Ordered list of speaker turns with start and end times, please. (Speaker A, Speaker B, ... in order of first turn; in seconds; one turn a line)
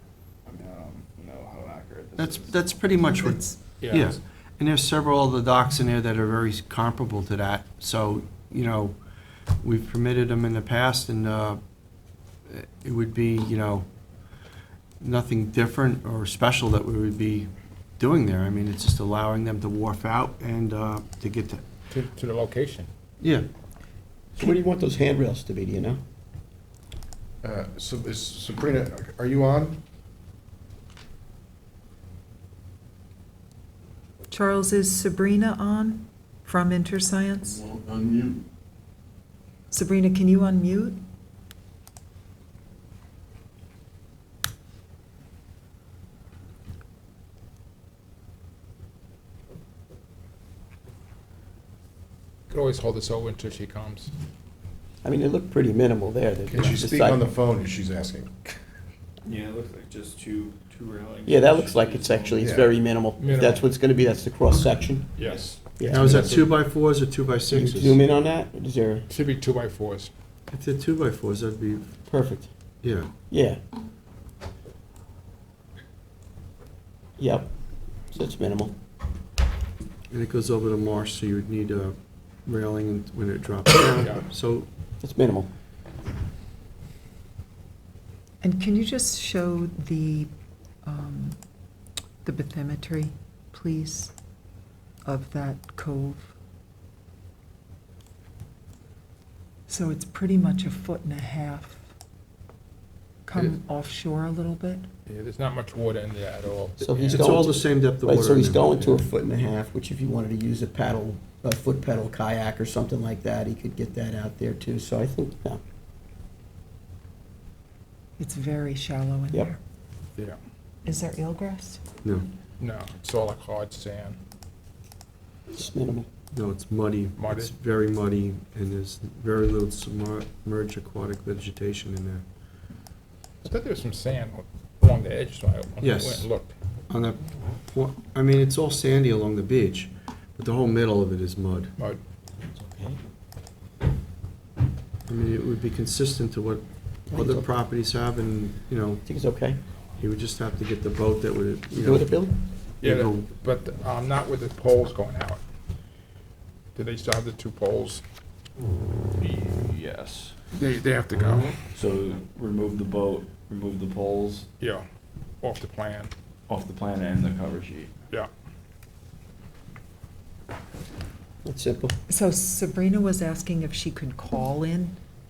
Speaker A: 0.5-2.8
Speaker B: 2.1-8.9
Speaker C: 3.1-3.6
Speaker D: 3.8-4.2
Speaker B: 9.6-11.6
Speaker B: 12.5-13.8
Speaker B: 15.0-21.6
Speaker D: 21.9-22.9
Speaker B: 23.2-23.5
Speaker E: 24.4-26.0
Speaker F: 27.4-29.8
Speaker C: 34.3-37.6
Speaker F: 37.6-38.4
Speaker C: 39.7-41.0
Speaker D: 52.5-54.1
Speaker E: 55.0-57.3
Speaker F: 56.5-58.5
Speaker A: 59.2-62.4
Speaker E: 61.3-65.1
Speaker F: 62.4-62.7
Speaker D: 63.2-63.7
Speaker D: 65.2-65.6
Speaker A: 65.2-65.6
Speaker E: 65.8-66.4
Speaker B: 65.9-68.0
Speaker E: 67.5-69.1
Speaker D: 69.1-70.1
Speaker B: 70.5-71.9
Speaker E: 72.1-72.5
Speaker B: 72.8-73.1
Speaker E: 73.3-73.6
Speaker E: 77.2-77.5
Speaker E: 78.1-78.7
Speaker B: 80.1-84.7
Speaker E: 85.0-85.5
Speaker C: 88.4-90.3
Speaker C: 90.8-91.4
Speaker C: 92.2-94.1
Speaker C: 95.0-96.2
Speaker C: 99.7-101.8
Speaker C: 103.2-104.8
Speaker D: 105.0-107.3
Speaker E: 106.8-115.6
Speaker B: 107.1-108.6
Speaker C: 118.2-119.6
Speaker C: 120.8-121.8
Speaker D: 122.6-124.2
Speaker E: 125.5-126.1
Speaker B: 126.3-132.2
Speaker D: 127.2-127.5
Speaker D: 133.4-136.5
Speaker B: 135.8-136.3
Speaker B: 136.9-141.7
Speaker A: 142.6-142.9
Speaker B: 145.1-149.0
Speaker E: 147.1-147.5
Speaker E: 149.1-149.6
Speaker B: 150.0-152.2
Speaker E: 151.7-152.4
Speaker B: 152.8-153.3
Speaker D: 152.8-155.4
Speaker D: 156.8-158.0
Speaker A: 159.2-160.4
Speaker D: 160.5-161.6
Speaker A: 161.7-164.5
Speaker D: 164.6-164.8
Speaker D: 165.4-166.1
Speaker A: 166.5-167.9
Speaker E: 171.4-172.0
Speaker C: 172.1-175.0